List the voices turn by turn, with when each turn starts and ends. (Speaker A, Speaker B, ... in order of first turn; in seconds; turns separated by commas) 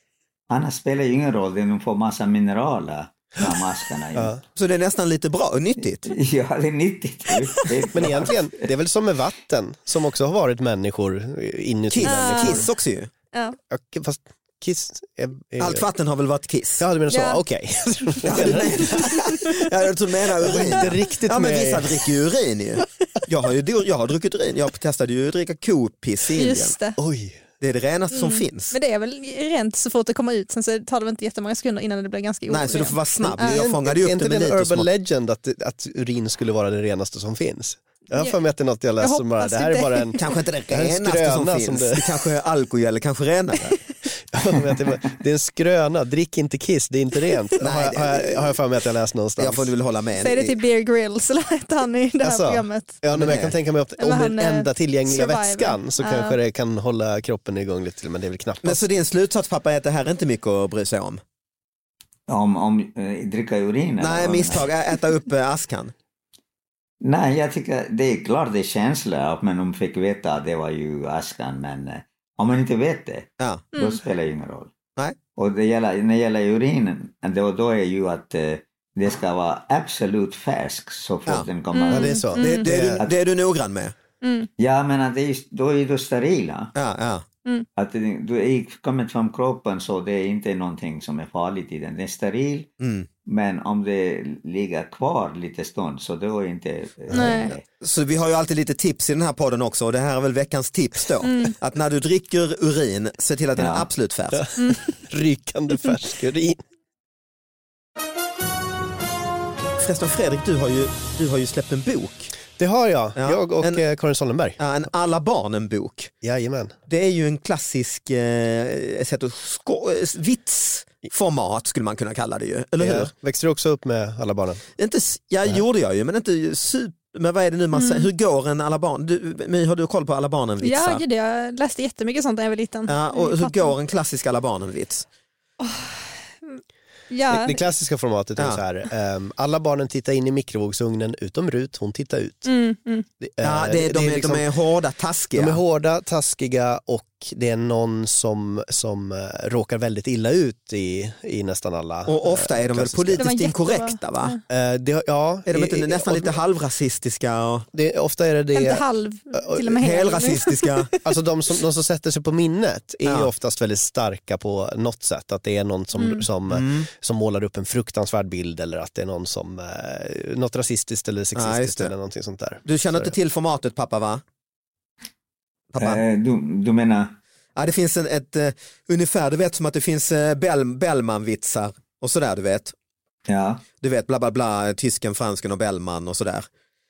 Speaker A: 0.5-4.3, Speaker B: 4.1-4.4, Speaker C: 4.5-6.1, Speaker A: 6.0-8.6, Speaker B: 7.9-12.7, Speaker C: 11.9-13.1, Speaker D: 12.0-12.7, Speaker D: 13.3-13.6, Speaker B: 13.7-15.8, Speaker C: 15.6-16.8, Speaker B: 16.8-19.4, Speaker D: 17.1-17.4, Speaker C: 18.2-26.7, Speaker D: 18.4-19.4, Speaker B: 20.4-22.1, Speaker D: 26.3-27.0, Speaker B: 27.0-27.4, Speaker C: 27.6-28.7, Speaker D: 28.1-33.6, Speaker C: 32.5-34.9, Speaker B: 33.2-40.2, Speaker D: 39.0-40.2, Speaker C: 40.2-43.8, Speaker B: 40.7-42.2, Speaker B: 44.3-49.7, Speaker C: 47.6-48.5, Speaker C: 49.4-50.6, Speaker D: 50.2-53.0, Speaker B: 52.2-58.8, Speaker C: 53.1-53.5, Speaker D: 54.0-56.4, Speaker C: 58.6-61.2, Speaker A: 62.3-64.7, Speaker C: 64.0-65.9, Speaker A: 67.0-74.7, Speaker C: 73.4-73.7, Speaker A: 75.3-82.2, Speaker D: 81.7-82.7, Speaker B: 81.9-83.0, Speaker C: 82.3-83.9, Speaker D: 84.2-84.5, Speaker A: 84.6-86.7, Speaker C: 86.7-87.2, Speaker A: 87.8-92.7, Speaker C: 92.8-93.1, Speaker A: 93.2-97.6, Speaker B: 97.1-97.4, Speaker D: 97.1-97.5, Speaker C: 97.8-104.4, Speaker D: 101.2-101.5, Speaker A: 103.6-103.9, Speaker B: 104.3-106.6, Speaker D: 104.6-104.9, Speaker C: 109.8-112.3, Speaker B: 112.6-114.6, Speaker C: 113.2-113.8, Speaker C: 114.6-116.1, Speaker B: 116.2-116.7, Speaker C: 116.9-123.1, Speaker B: 122.8-124.6, Speaker C: 124.8-131.0, Speaker D: 127.7-128.1, Speaker D: 130.6-133.7, Speaker C: 132.9-135.1, Speaker D: 135.6-137.6, Speaker B: 137.3-142.5, Speaker C: 138.4-138.6, Speaker D: 142.4-143.1, Speaker B: 143.2-144.4, Speaker C: 143.4-145.6, Speaker B: 145.3-153.3, Speaker C: 152.1-154.4, Speaker D: 153.2-154.4, Speaker B: 154.5-156.3, Speaker C: 155.4-157.7, Speaker B: 157.7-159.7, Speaker D: 158.5-160.9, Speaker C: 159.7-160.9, Speaker B: 161.0-173.1, Speaker C: 163.0-163.3, Speaker D: 165.9-166.2, Speaker C: 166.5-166.9, Speaker C: 171.3-171.9, Speaker C: 172.6-174.2, Speaker C: 175.7-176.0, Speaker A: 175.8-177.1, Speaker C: 177.6-182.7, Speaker A: 183.3-183.6, Speaker C: 183.8-186.5